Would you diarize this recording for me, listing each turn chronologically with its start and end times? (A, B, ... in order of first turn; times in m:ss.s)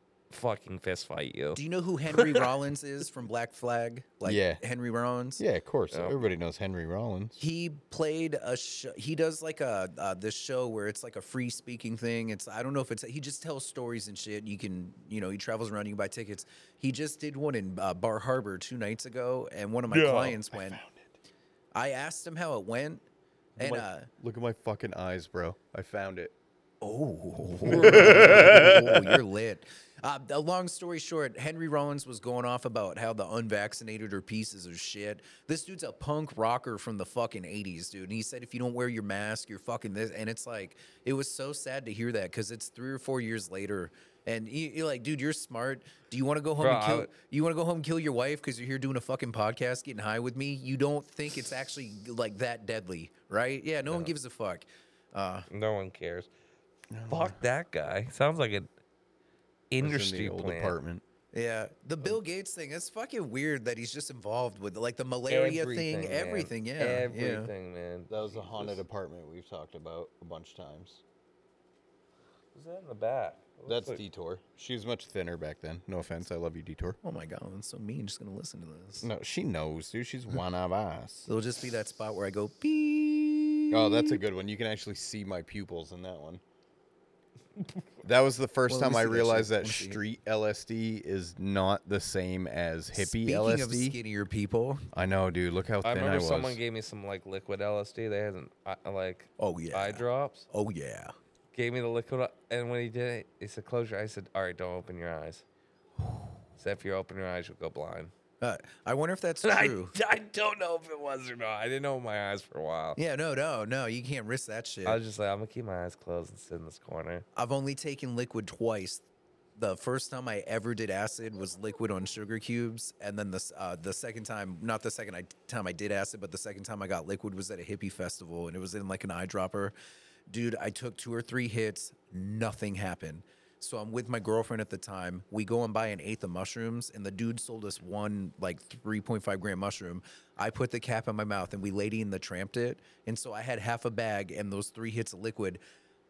0:00.3-0:01.6 A
0:01.5-0:05.4 B
0:04.2-0:04.6 C
0:05.4-0:07.4 C
0:05.9-0:06.2 A
0:07.4-0:20.8 B
0:19.9-0:20.3 A
0:20.1-0:21.1 C
0:21.7-0:23.0 B
0:23.6-0:26.3 C
0:23.6-0:24.1 B
0:26.8-0:55.4 B
0:27.6-0:29.2 C
0:46.6-0:47.1 A
0:55.5-0:56.3 A
0:56.9-0:57.4 C
0:57.1-0:58.7 A
0:59.7-1:00.7 A
0:59.8-1:01.0 C
1:01.3-1:07.5 B
1:05.3-1:08.8 A
1:08.1-1:11.0 C
1:12.5-1:14.0 A
1:13.6-1:17.0 C
1:17.0-1:19.1 B
1:19.0-1:21.3 C
1:21.3-1:24.2 B
1:23.7-1:26.4 C
1:28.0-1:34.0 C
1:28.7-1:30.0 B
1:32.9-1:34.8 B
1:34.9-1:36.6 C
1:35.8-1:40.5 A
1:39.4-1:41.1 B
1:41.5-1:45.4 A
1:46.6-1:48.1 A
1:48.4-1:49.9 B
1:49.4-1:53.0 A
1:53.0-1:55.0 B
1:54.8-1:57.2 A
1:57.4-1:59.0 B
1:59.6-2:09.7 B
2:10.3-2:25.6 B